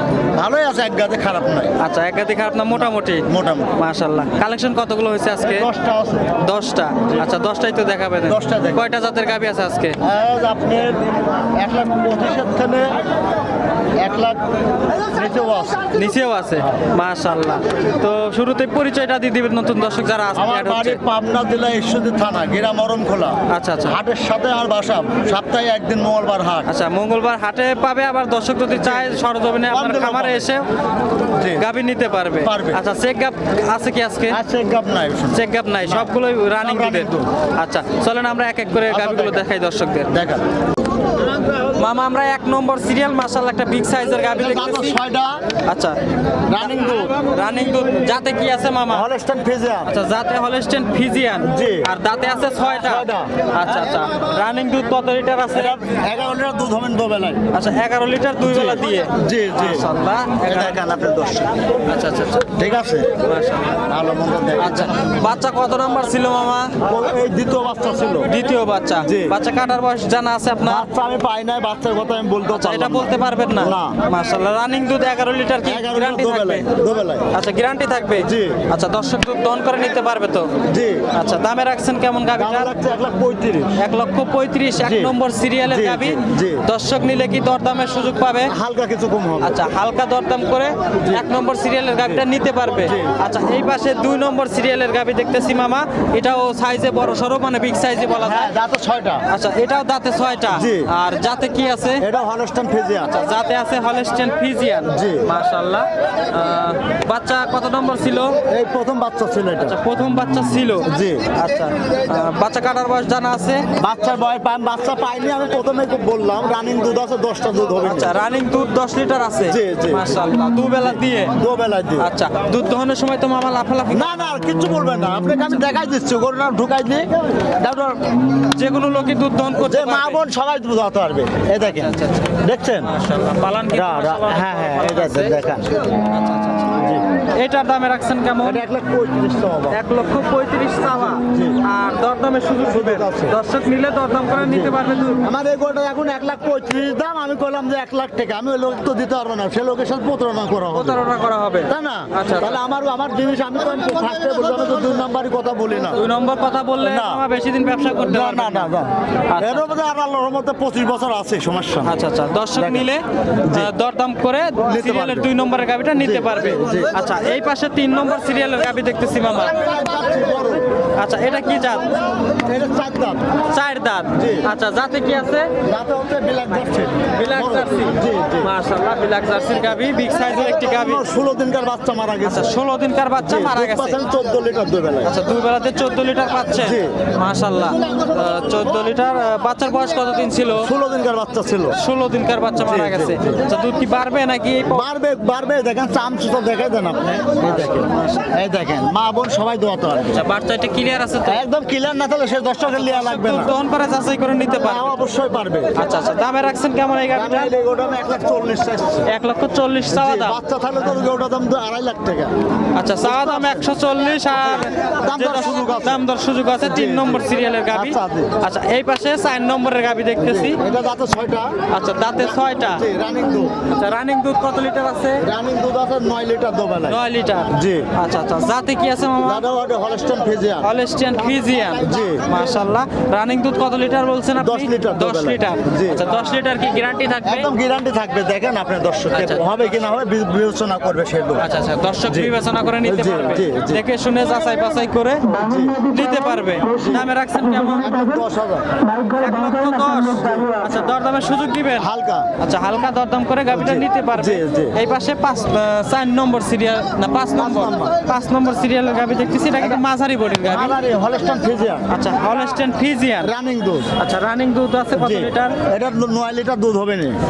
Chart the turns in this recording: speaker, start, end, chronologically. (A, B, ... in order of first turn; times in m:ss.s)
0:00.3-0:01.7 A
0:01.8-0:05.7 B
0:03.2-0:03.7 A
0:05.4-0:06.4 A
0:06.4-0:10.0 B
0:08.2-0:08.9 A
0:10.0-0:13.0 A
0:14.0-0:14.4 A
0:15.0-0:15.8 A
0:15.9-0:21.0 B
0:20.3-0:26.7 A
0:23.5-0:24.0 B
0:26.6-0:30.6 B
0:28.8-0:29.2 A
0:29.7-0:30.5 A
0:31.3-0:31.6 A
0:31.6-0:34.4 B
0:32.4-0:32.8 A
0:34.3-0:37.3 A
0:35.3-0:40.1 B
0:38.9-0:39.4 A
0:40.1-0:40.4 A
0:41.7-0:45.0 B
0:44.3-0:45.4 A
0:45.6-0:46.0 B
0:46.5-0:47.1 A
0:46.6-0:49.1 B
0:48.9-0:49.9 A
0:49.8-0:55.8 B
0:51.4-0:51.9 A
0:52.6-0:53.3 A
0:55.5-0:57.4 A
0:57.5-1:00.8 B
0:58.4-0:59.9 A
1:00.4-1:01.6 A
1:01.9-1:02.5 B
1:02.5-1:03.1 A
1:03.2-1:03.8 B
1:03.9-1:05.2 A
1:04.6-1:06.8 B
1:06.8-1:08.3 A
1:08.2-1:10.9 B
1:09.0-1:09.4 A
1:10.6-1:14.0 A
1:12.5-1:16.7 B
1:15.6-1:17.3 A
1:17.3-1:20.5 B
1:18.2-1:18.6 A
1:20.6-1:21.1 A
1:21.1-1:22.7 B
1:22.4-1:23.8 A
1:23.8-1:28.5 B
1:24.8-1:26.6 A
1:28.5-1:29.6 A
1:29.4-1:38.5 B
1:31.0-1:31.2 A
1:32.8-1:33.1 A
1:38.2-1:39.2 A
1:39.3-1:42.0 B
1:40.5-1:40.9 A
1:42.0-1:43.1 A
1:43.1-1:48.4 B
1:44.9-1:45.2 A
1:48.5-1:49.8 A
1:49.6-1:53.7 B
1:50.8-1:51.2 A
1:53.8-1:58.1 A
1:57.8-2:01.3 B
1:59.4-2:00.2 A
2:00.8-2:02.1 A
2:02.0-2:04.3 B
2:03.9-2:08.3 A
2:08.5-2:10.2 B
2:09.5-2:12.9 A
2:11.6-2:16.8 B
2:13.7-2:15.8 A
2:16.7-2:17.0 A
2:17.3-2:18.6 B
2:18.4-2:19.8 A
2:19.7-2:25.2 B
2:21.2-2:21.6 A
2:22.6-2:23.4 A
2:24.4-2:31.0 A
2:30.7-2:32.6 B
2:31.7-2:36.0 A
2:35.9-2:39.8 B
2:36.8-2:37.2 A
2:38.0-2:41.9 A
2:41.8-2:49.6 B
2:42.5-2:42.9 A
2:43.4-2:43.7 A
2:44.6-2:45.3 A
2:46.0-2:46.9 A
2:49.4-2:50.7 A
2:51.0-2:51.9 B
2:52.2-2:53.2 A
2:53.5-2:55.5 B
2:54.1-2:54.5 A
2:55.6-2:58.5 A
2:57.1-3:01.0 B
3:00.3-3:02.5 A
3:02.2-3:04.0 B
3:03.2-3:05.1 A
3:05.0-3:10.7 B
3:06.6-3:07.0 A
3:10.6-3:11.8 A
3:11.7-3:14.8 B
3:12.6-3:13.4 A
3:14.7-3:20.2 A
3:17.5-3:18.3 B
3:20.1-3:21.4 B
3:21.2-3:23.5 A
3:22.6-3:25.0 B
3:24.5-3:25.8 A
3:25.8-3:27.5 B
3:27.1-3:29.1 A
3:29.1-3:30.4 B
3:29.9-3:32.3 A
3:32.8-3:40.6 B
3:33.0-3:33.7 A
3:34.3-3:38.4 A
3:40.2-3:41.5 A
3:41.7-3:42.8 B
3:42.1-3:43.5 A
3:43.7-3:45.2 B
3:45.2-3:47.9 A
3:46.9-3:49.4 B
3:49.2-3:50.7 A
3:50.6-3:57.5 B
3:51.8-3:52.4 A
3:54.4-3:56.2 A
3:57.2-4:01.5 A
3:59.1-3:59.6 B
4:01.4-4:08.0 B
4:02.1-4:03.8 A
4:05.3-4:05.8 A
4:06.7-4:07.1 A
4:07.8-4:08.7 A
4:09.0-4:11.9 B
4:11.8-4:12.3 A
4:12.4-4:20.8 B
4:13.5-4:14.8 A
4:17.3-4:17.9 A
4:19.6-4:19.8 A
4:20.4-4:21.8 A
4:21.9-4:23.3 B
4:23.2-4:23.9 A
4:24.0-4:25.6 B
4:25.0-4:27.2 A